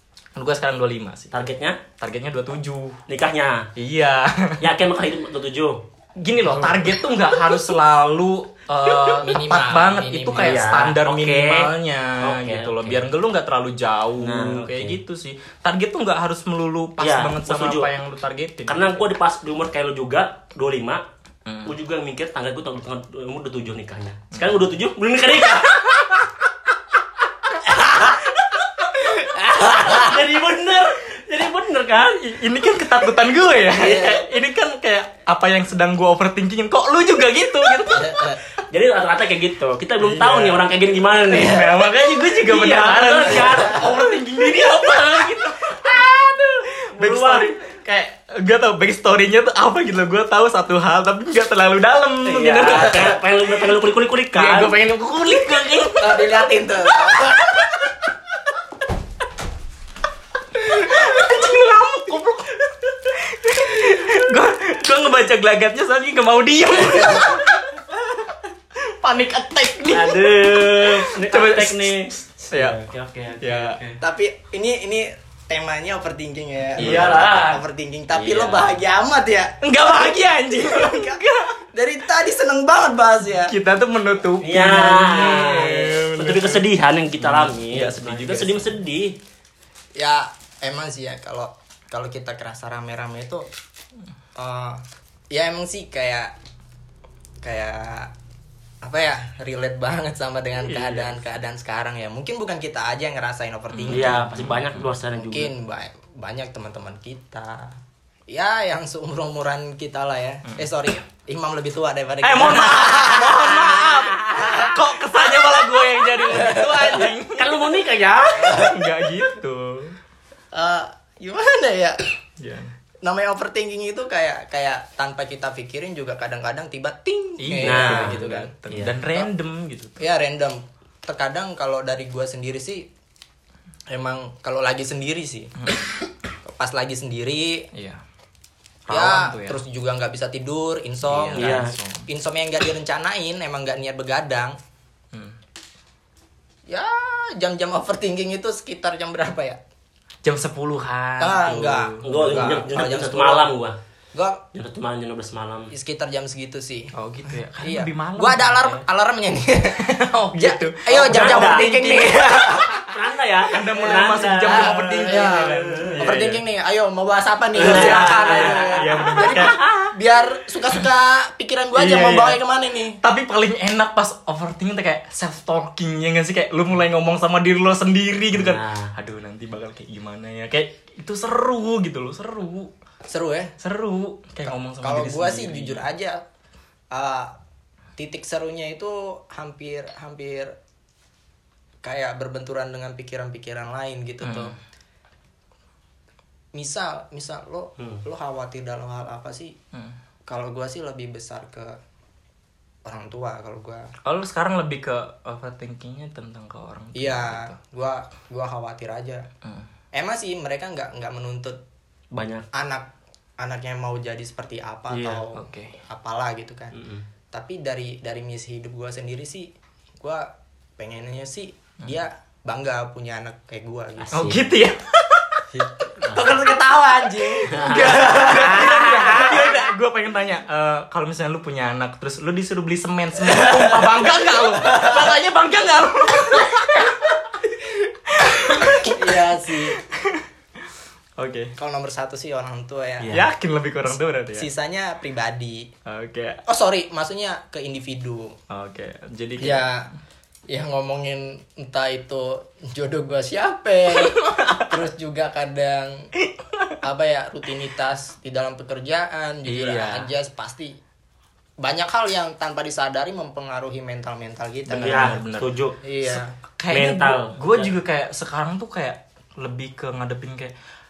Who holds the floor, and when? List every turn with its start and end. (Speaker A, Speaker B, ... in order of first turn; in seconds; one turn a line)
Speaker A: 0.3-1.4
Speaker B: 1.3-1.8
Speaker A: 2.0-3.0
Speaker B: 3.1-3.7
Speaker A: 3.8-4.7
Speaker B: 4.6-5.8
Speaker A: 6.2-19.0
Speaker B: 6.5-7.6
Speaker C: 9.2-10.6
Speaker B: 10.3-13.0
Speaker B: 14.2-15.0
Speaker B: 17.0-17.9
Speaker B: 18.7-21.0
Speaker A: 21.4-21.8
Speaker B: 21.6-26.2
Speaker A: 24.3-24.7
Speaker B: 27.8-28.2
Speaker A: 29.0-30.1
Speaker B: 29.1-32.2
Speaker A: 32.1-38.4
Speaker C: 33.7-34.2
Speaker C: 37.9-38.4
Speaker B: 38.7-44.2
Speaker A: 40.0-40.6
Speaker A: 41.2-53.8
Speaker B: 45.8-47.6
Speaker B: 52.2-54.8
Speaker A: 54.3-57.9
Speaker C: 56.0-57.6
Speaker A: 60.6-72.8
Speaker B: 69.9-74.0
Speaker A: 73.4-73.8
Speaker C: 74.0-83.5
Speaker A: 76.8-77.4
Speaker B: 76.8-77.6
Speaker A: 78.1-78.7
Speaker A: 79.6-81.6
Speaker A: 83.4-86.7
Speaker B: 84.4-89.2
Speaker A: 87.2-88.7
Speaker C: 90.0-93.5
Speaker C: 94.3-96.3
Speaker C: 97.4-98.1
Speaker C: 98.8-104.3
Speaker A: 100.7-101.0
Speaker A: 103.7-105.0
Speaker B: 103.9-105.5
Speaker C: 105.2-107.8
Speaker C: 108.3-114.8
Speaker A: 112.2-117.8
Speaker C: 116.3-116.9
Speaker B: 116.9-118.6
Speaker A: 118.3-120.0
Speaker C: 118.4-118.8
Speaker C: 120.5-122.0
Speaker A: 122.4-122.7
Speaker C: 123.0-128.5
Speaker A: 127.4-130.0
Speaker B: 127.6-129.0
Speaker C: 130.0-132.9
Speaker C: 133.9-135.7
Speaker C: 136.4-137.7
Speaker A: 137.7-138.0
Speaker A: 138.9-139.6
Speaker C: 138.9-144.6
Speaker A: 141.0-142.1
Speaker B: 141.3-141.8
Speaker A: 145.1-145.4
Speaker C: 146.7-149.6
Speaker A: 150.2-152.6
Speaker C: 151.2-153.5
Speaker B: 152.0-153.8
Speaker C: 154.1-154.4
Speaker B: 154.5-155.7
Speaker C: 155.7-156.9
Speaker A: 156.9-158.8
Speaker C: 157.6-162.8
Speaker A: 159.8-162.9
Speaker B: 160.9-162.1
Speaker B: 162.7-166.0
Speaker A: 163.5-166.4
Speaker C: 164.4-173.0
Speaker B: 167.6-169.5
Speaker A: 167.6-169.9
Speaker A: 171.7-172.4
Speaker A: 173.0-182.7
Speaker B: 178.3-178.9
Speaker C: 183.1-183.5
Speaker A: 183.6-185.8
Speaker C: 184.4-186.2
Speaker C: 186.9-187.3
Speaker C: 188.0-190.5
Speaker C: 191.8-194.5
Speaker A: 194.2-194.6
Speaker C: 196.5-199.5
Speaker B: 197.8-198.0
Speaker C: 200.3-201.8
Speaker C: 202.8-203.9
Speaker A: 204.0-207.6
Speaker C: 206.9-209.2
Speaker A: 209.4-209.7
Speaker C: 209.9-211.6
Speaker B: 212.1-212.5
Speaker C: 212.5-216.8
Speaker B: 214.9-215.2
Speaker A: 215.3-215.8
Speaker B: 216.7-217.0
Speaker C: 217.3-224.3
Speaker B: 224.0-224.5
Speaker A: 224.1-225.4
Speaker C: 225.5-229.4
Speaker B: 226.0-226.3
Speaker A: 227.2-240.3
Speaker B: 227.5-229.2
Speaker C: 233.3-233.9
Speaker C: 234.5-235.0
Speaker C: 238.7-239.8
Speaker A: 241.2-241.5
Speaker C: 241.6-243.2
Speaker B: 243.0-243.3
Speaker A: 243.1-244.5
Speaker C: 244.3-245.7
Speaker A: 245.8-246.4
Speaker C: 246.4-248.3
Speaker A: 248.5-249.7
Speaker C: 249.4-249.9
Speaker C: 250.5-256.1
Speaker A: 253.9-254.8
Speaker A: 256.2-256.8
Speaker C: 256.8-260.7
Speaker A: 259.4-260.1
Speaker C: 261.6-265.2
Speaker A: 264.7-265.5
Speaker B: 264.7-265.8
Speaker C: 265.8-266.3
Speaker A: 266.0-270.5
Speaker B: 266.7-267.7